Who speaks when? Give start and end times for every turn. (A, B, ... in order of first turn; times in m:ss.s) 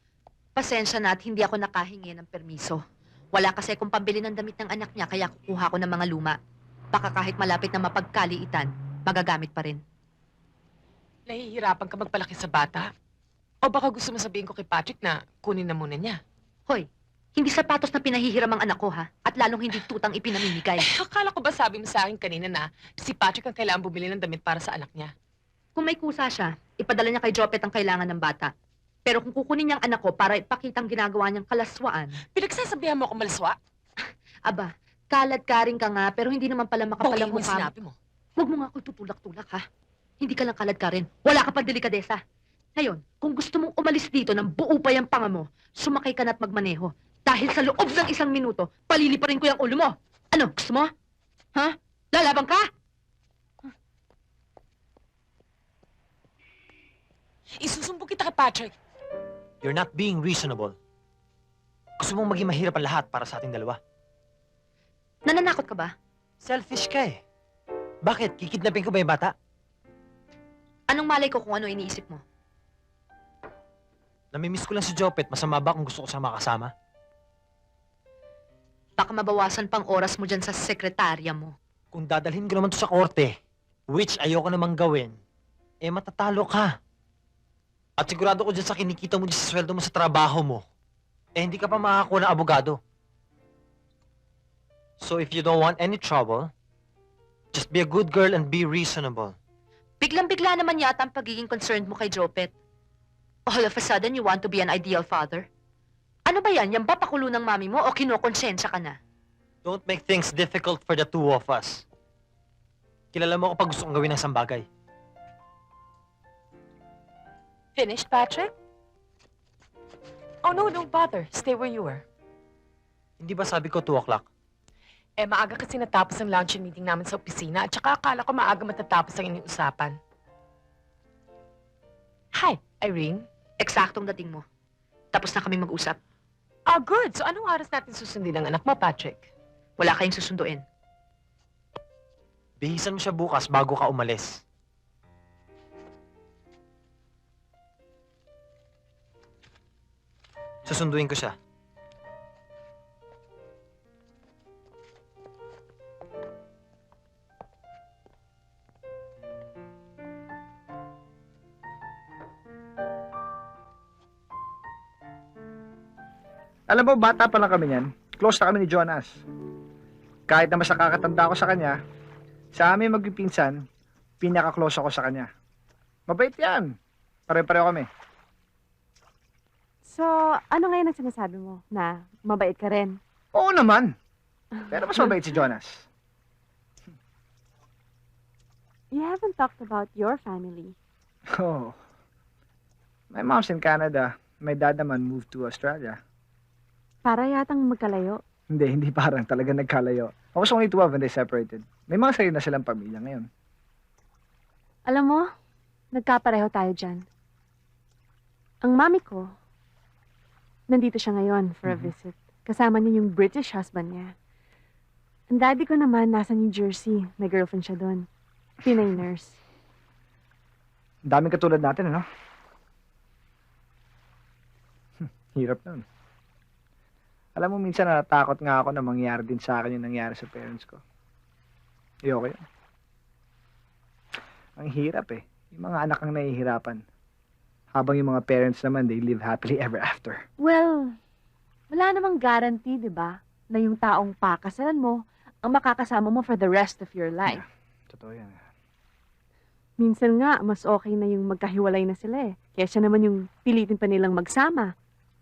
0:00.6-0:02.8 A
0:03.3-0:06.4 A
0:06.9-0:09.8 A
0:11.3-0:12.9 B
0:13.6-0:16.2 B
0:16.7-0:20.9 A
0:20.5-0:25.1 B
0:25.8-0:28.5 A
0:29.0-0:32.2 A
0:32.3-0:33.6 B
0:34.5-0:37.7 A
0:37.0-0:37.9 B
0:38.4-0:39.6 A
0:40.2-0:42.2 A
0:42.8-0:50.9 A
0:51.5-0:52.6 A
0:57.6-0:58.7 B
0:59.6-1:00.7 C
1:02.0-1:03.8 C
1:05.3-1:05.9 A
1:06.4-1:07.2 C
1:08.0-1:09.3 C
1:10.9-1:12.2 A
1:14.3-1:16.7 C
1:19.0-1:21.5 A
1:21.9-1:23.3 C
1:23.9-1:25.2 C
1:25.8-1:26.7 C
1:28.0-1:30.6 C
1:31.4-1:32.8 C
1:35.0-1:36.5 C
1:37.5-1:39.4 C
1:40.0-1:42.5 A
1:43.5-1:45.5 A
1:46.3-1:49.0 A
1:49.6-1:51.8 C
1:53.1-1:54.6 C
1:57.8-1:58.5 B
2:00.4-2:02.0 B
2:03.2-2:04.2 C
2:05.2-2:10.0 B
2:12.3-2:13.2 B
2:13.6-2:14.4 A
2:15.1-2:16.0 A
2:16.7-2:19.3 B
2:19.8-2:20.6 A
2:22.6-2:24.4 C
2:30.6-2:31.4 C
2:46.7-2:49.2 D
2:50.3-2:51.8 D
2:52.5-2:53.6 D
2:54.2-2:55.3 D
2:56.1-2:56.7 D
2:57.3-2:57.9 D
2:59.8-3:02.9 E
3:03.3-3:03.9 D
3:04.7-3:05.8 D
3:08.9-3:10.7 E
3:11.4-3:11.7 D
3:13.1-3:16.0 D
3:17.0-3:18.2 E
3:18.5-3:23.3 D
3:24.9-3:25.2 E
3:26.0-3:27.0 E
3:28.6-3:29.2 E
3:30.7-3:34.1 E
3:35.3-3:38.0 E
3:38.6-3:39.4 E
3:41.1-3:42.0 D
3:45.4-3:45.8 D
3:47.4-3:50.8 D
3:52.1-3:52.4 D
3:54.6-3:56.8 D
3:57.7-4:00.2 D
4:00.4-4:00.9 E
4:01.7-4:05.0 E
4:05.5-4:07.4 E
4:07.3-4:08.4 D
4:09.8-4:14.7 E